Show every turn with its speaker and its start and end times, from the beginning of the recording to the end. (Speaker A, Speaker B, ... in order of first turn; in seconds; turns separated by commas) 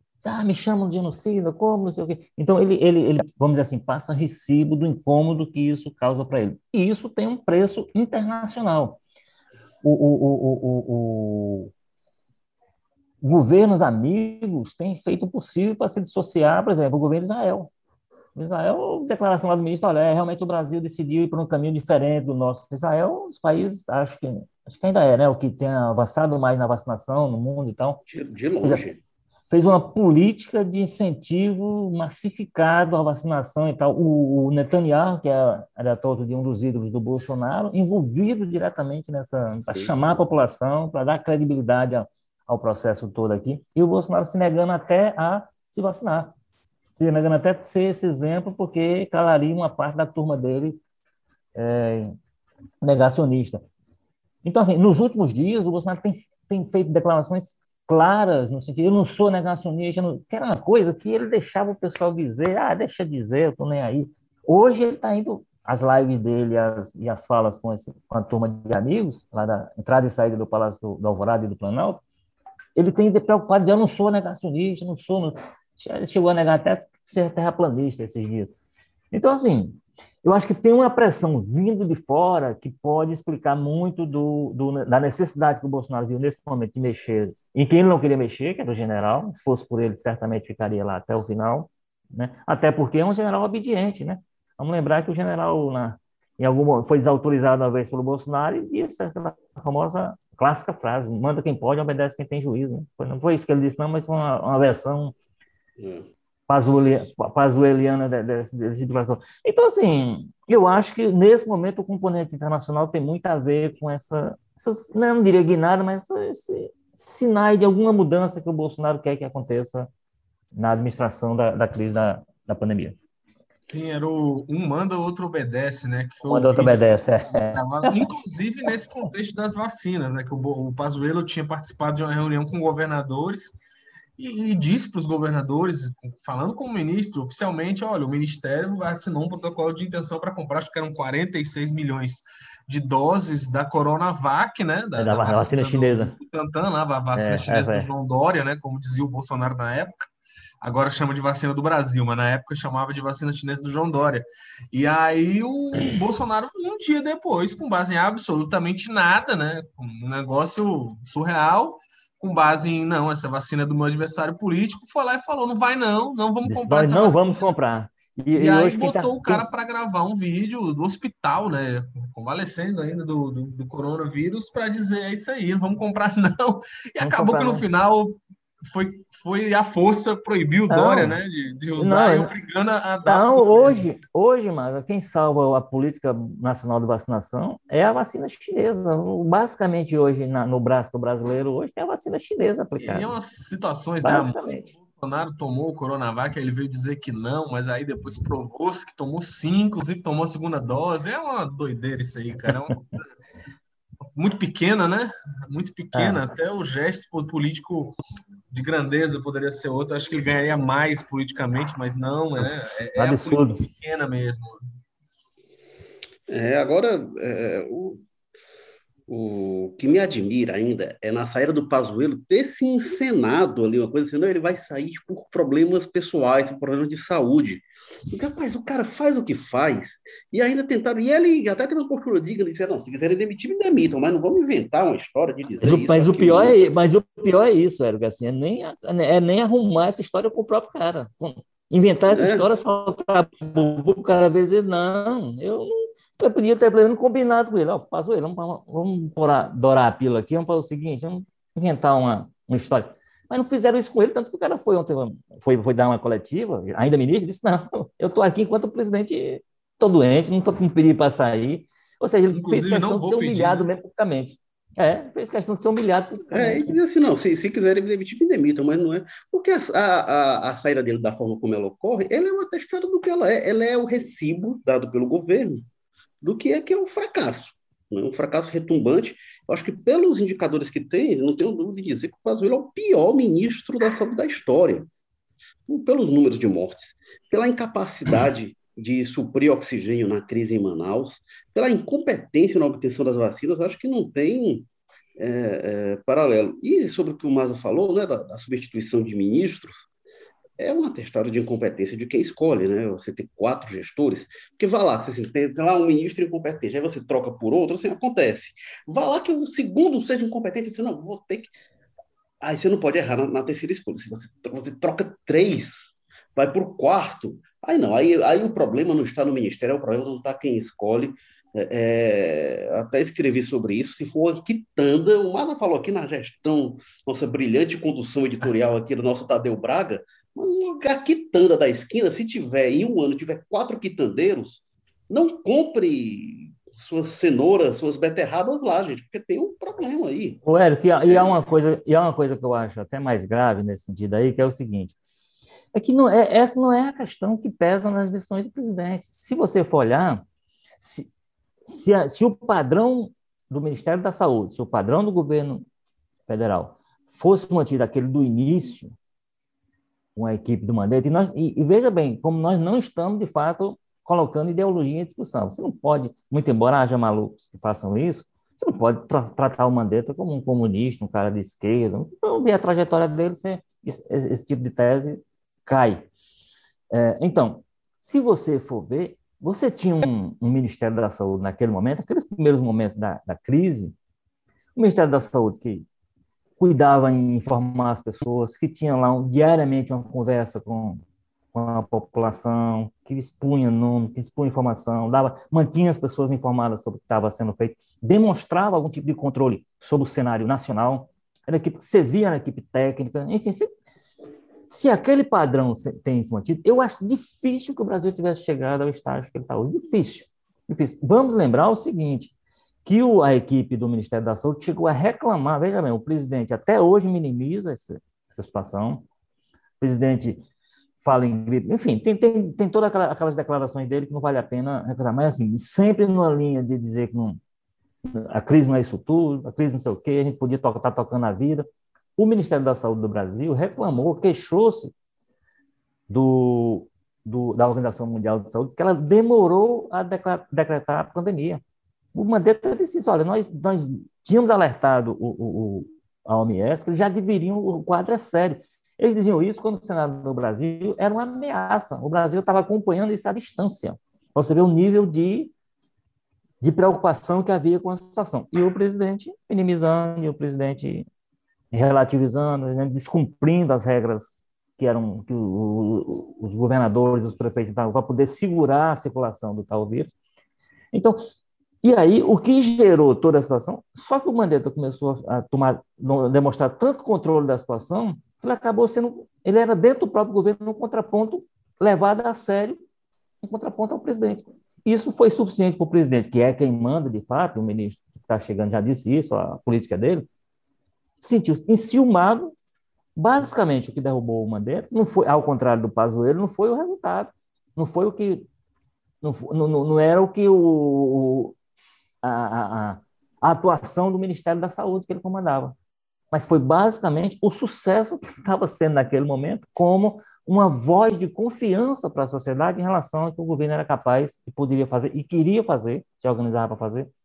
Speaker A: 0.2-9.0, Speaker A: 9.8-11.7, Speaker A: 13.2-17.7, Speaker A: 18.3-28.0, Speaker B: 28.1-29.0, Speaker A: 29.5-46.3, Speaker A: 46.9-50.8, Speaker A: 51.5-52.1, Speaker A: 52.8-53.6, Speaker A: 54.4-72.0, Speaker A: 72.8-78.5, Speaker A: 79.1-105.1, Speaker B: 105.8-106.1, Speaker A: 106.5-119.9, Speaker A: 120.5-123.0, Speaker C: 123.6-126.9, Speaker A: 126.2-128.1, Speaker C: 127.5-133.6, Speaker C: 134.2-150.1, Speaker A: 145.0-146.2, Speaker A: 147.1-147.9, Speaker C: 150.6-167.4, Speaker A: 166.4-169.4, Speaker C: 168.3-183.9, Speaker A: 177.0-177.7, Speaker A: 180.7-181.2, Speaker A: 181.8-182.3, Speaker A: 183.0-193.1, Speaker C: 192.8-203.0, Speaker A: 194.0-194.7, Speaker C: 204.2-208.0, Speaker A: 205.9-206.3, Speaker C: 208.5-214.6, Speaker A: 212.4-213.7, Speaker B: 216.3-218.0, Speaker B: 219.1-236.6, Speaker A: 235.6-266.8, Speaker B: 242.1-242.4, Speaker C: 262.3-263.6, Speaker B: 266.3-275.6, Speaker B: 276.2-284.9, Speaker B: 285.7-299.9, Speaker B: 300.6-311.5, Speaker B: 312.4-340.4, Speaker A: 340.4-344.9, Speaker B: 341.0-341.4, Speaker A: 345.7-350.2, Speaker A: 350.8-351.1, Speaker A: 351.6-355.6, Speaker A: 356.3-358.9, Speaker A: 360.1-376.1, Speaker A: 376.9-383.9, Speaker A: 384.8-385.9, Speaker A: 386.6-391.0, Speaker A: 391.5-403.7, Speaker A: 404.7-412.3, Speaker A: 412.8-419.0, Speaker A: 419.8-420.4, Speaker A: 421.0-427.4, Speaker A: 428.1-434.9, Speaker A: 436.1-441.6, Speaker A: 442.1-455.5, Speaker A: 456.6-461.1, Speaker A: 461.7-470.1, Speaker A: 470.9-471.2, Speaker A: 471.8-482.8, Speaker A: 483.4-490.3, Speaker A: 491.2-492.5, Speaker A: 493.1-498.5, Speaker A: 499.2-501.5, Speaker A: 502.2-505.7, Speaker A: 506.3-517.1